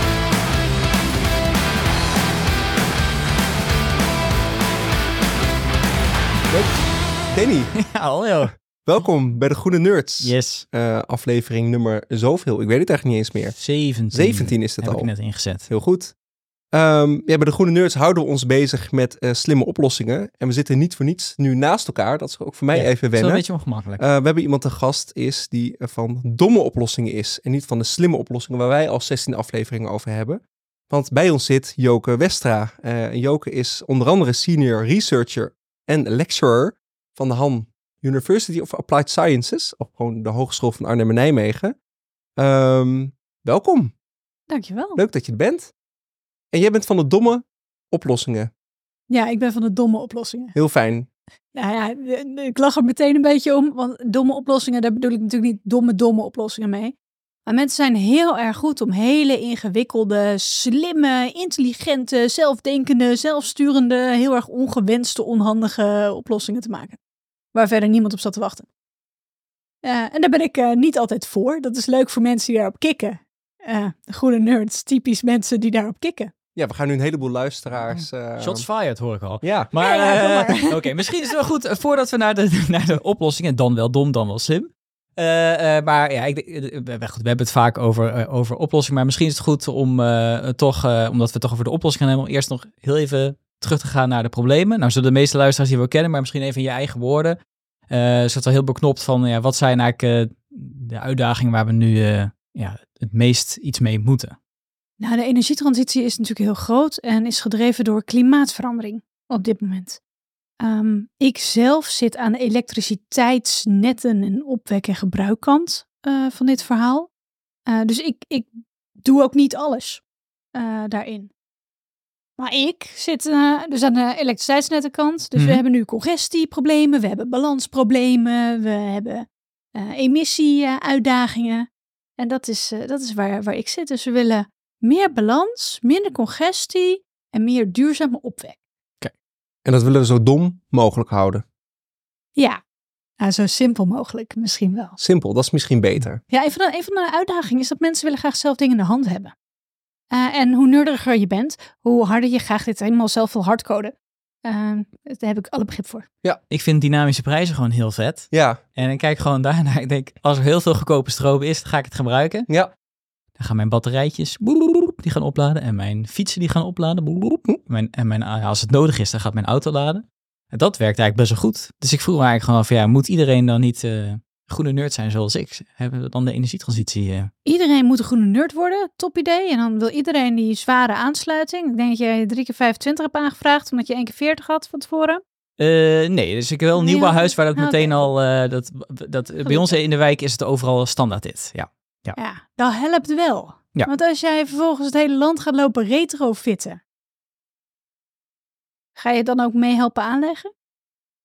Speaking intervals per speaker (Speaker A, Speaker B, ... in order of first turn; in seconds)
Speaker A: 6.5-6.8, 7.3-7.7, 8.8-13.6, 14.1-15.1, 15.7-16.1, 16.7-41.8, 42.4-43.9, 45.0-45.7, 46.5-48.5, 50.5-51.1, 76.5-78.6, 79.4-79.7, 139.6-141.4, 145.0-146.2, 158.3-158.6
Speaker B: 7.8-8.5, 10.2-10.6, 13.6-15.7, 22.7-24.0, 77.9-97.4, 97.9-104.3, 125.3-125.6, 156.5-162.5, 163.3-177.3, 185.6-192.2
Speaker C: 44.5-45.0, 49.1-50.5, 51.5-67.0, 67.5-68.7, 69.8-76.3, 79.8-81.1, 105.0-110.0, 110.6-117.1, 117.7-120.0, 120.5-121.3, 122.4-138.6, 142.3-142.6, 143.2-145.0, 146.3-149.3, 150.1-156.1, 177.4-185.2, 186.7-188.1, 189.4-189.8, 192.2-196.8, 198.9-200.5